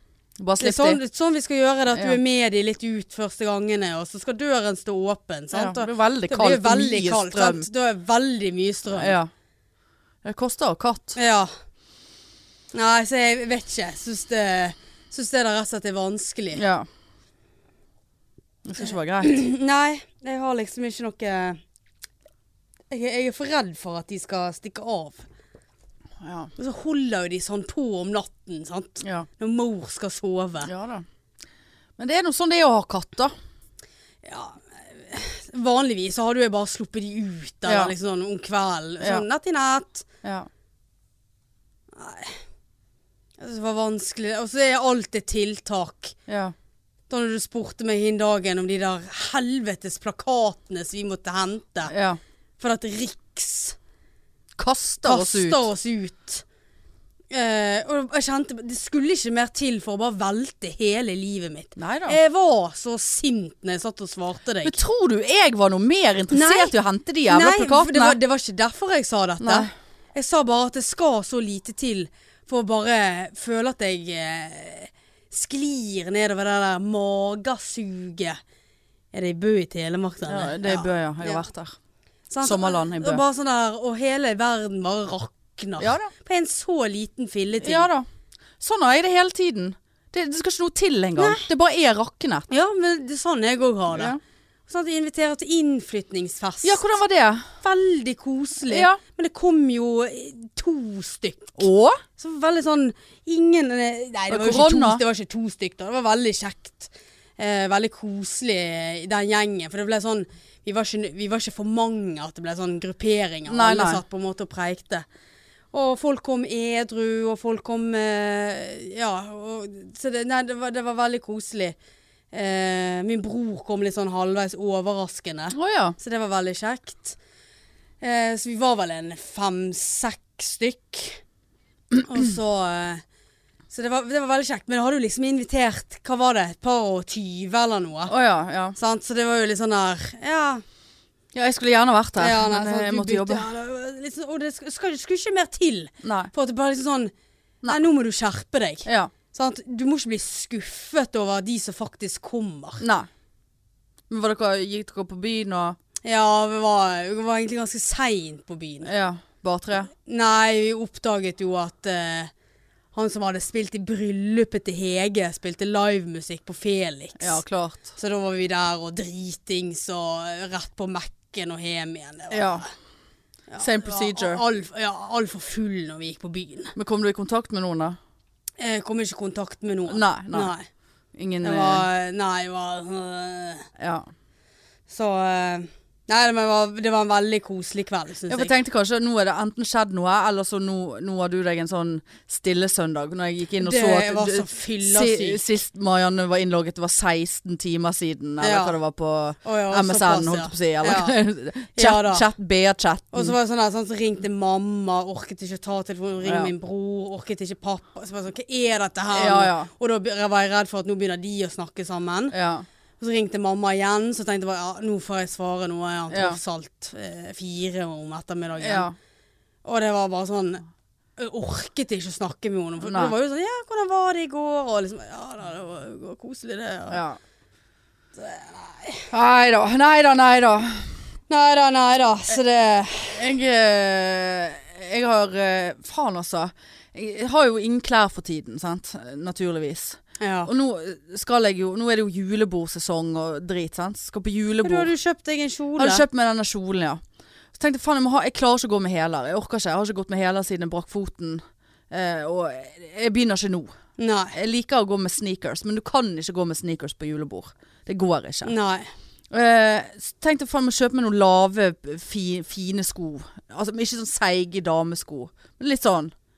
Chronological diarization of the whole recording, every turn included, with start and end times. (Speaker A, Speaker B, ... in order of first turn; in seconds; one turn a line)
Speaker A: 0.4-1.0
Speaker B: 0.6-9.2
Speaker A: 1.9-2.2
Speaker A: 5.5-7.7
Speaker A: 8.9-9.3
Speaker A: 10.2-11.2
Speaker B: 11.2-11.5
Speaker B: 12.7-16.6
Speaker A: 16.6-16.9
Speaker A: 18.6-19.4
Speaker B: 19.2-21.6
Speaker B: 22.9-25.3
Speaker A: 26.2-26.5
Speaker B: 26.6-30.7
Speaker A: 29.0-29.3
Speaker A: 30.6-31.1
Speaker A: 32.0-33.3
Speaker B: 34.2-40.1
Speaker A: 37.7-37.9
Speaker A: 40.2-40.5
Speaker B: 42.0-42.4
Speaker B: 43.4-46.2
Speaker A: 46.3-46.5
Speaker B: 47.1-51.9
Speaker A: 51.9-52.2
Speaker B: 52.6-53.8
Speaker A: 54.6-55.7
Speaker B: 55.0-56.4
Speaker B: 57.3-64.8
Speaker A: 61.8-62.2
Speaker A: 64.6-68.2
Speaker B: 66.3-66.7
Speaker B: 67.3-78.4
Speaker A: 69.4-69.7
Speaker B: 79.1-81.5
Speaker A: 80.3-81.8
Speaker B: 82.3-87.9
Speaker A: 82.4-83.2
Speaker A: 85.8-86.1
Speaker A: 87.6-88.1
Speaker A: 88.6-92.5
Speaker B: 91.2-91.5
Speaker B: 92.5-94.2
Speaker A: 93.9-94.2
Speaker B: 94.7-96.9
Speaker A: 96.6-97.5
Speaker B: 97.6-101.7
Speaker A: 98.7-99.0
Speaker A: 101.6-102.0
Speaker B: 102.2-115.0
Speaker A: 104.3-105.0
Speaker A: 113.5-114.0
Speaker B: 115.7-121.8
Speaker B: 122.3-127.2
Speaker A: 125.5-126.0
Speaker B: 128.0-131.2
Speaker B: 132.0-133.0
Speaker B: 133.7-138.1
Speaker A: 138.1-138.8
Speaker B: 138.8-140.6
Speaker A: 141.3-143.4
Speaker B: 142.2-147.1
Speaker A: 146.0-146.3
Speaker B: 147.7-152.8
Speaker A: 148.8-149.1
Speaker A: 152.8-153.1
Speaker A: 154.1-155.8
Speaker B: 156.0-158.9
Speaker A: 158.8-159.9
Speaker B: 159.9-162.3
Speaker B: 162.9-167.4
Speaker A: 167.2-167.9
Speaker B: 167.9-172.7
Speaker A: 172.3-172.7
Speaker B: 173.5-176.8
Speaker A: 173.6-174.4
Speaker A: 176.8-178.0
Speaker B: 178.6-180.7
Speaker A: 179.9-180.5
Speaker A: 181.2-181.9
Speaker B: 181.4-183.7
Speaker A: 183.8-184.1
Speaker B: 184.9-188.5
Speaker A: 188.3-203.3
Speaker B: 193.6-195.4
Speaker B: 198.4-198.7
Speaker B: 199.4-201.2
Speaker B: 201.8-202.3
Speaker B: 203.1-212.3
Speaker A: 206.2-206.5
Speaker A: 209.1-209.7
Speaker A: 212.3-212.7
Speaker B: 213.0-218.9
Speaker A: 216.1-216.4
Speaker A: 218.6-218.9
Speaker B: 219.7-220.6
Speaker B: 221.2-227.0
Speaker A: 222.8-223.1
Speaker A: 226.9-227.2
Speaker B: 228.2-229.1
Speaker A: 229.1-230.9
Speaker B: 231.3-233.2
Speaker A: 233.1-244.9
Speaker B: 240.2-240.5
Speaker B: 244.6-246.0
Speaker A: 245.8-247.0
Speaker A: 247.6-253.7
Speaker B: 254.0-254.4
Speaker A: 254.3-258.5
Speaker B: 258.4-258.9
Speaker A: 259.3-266.1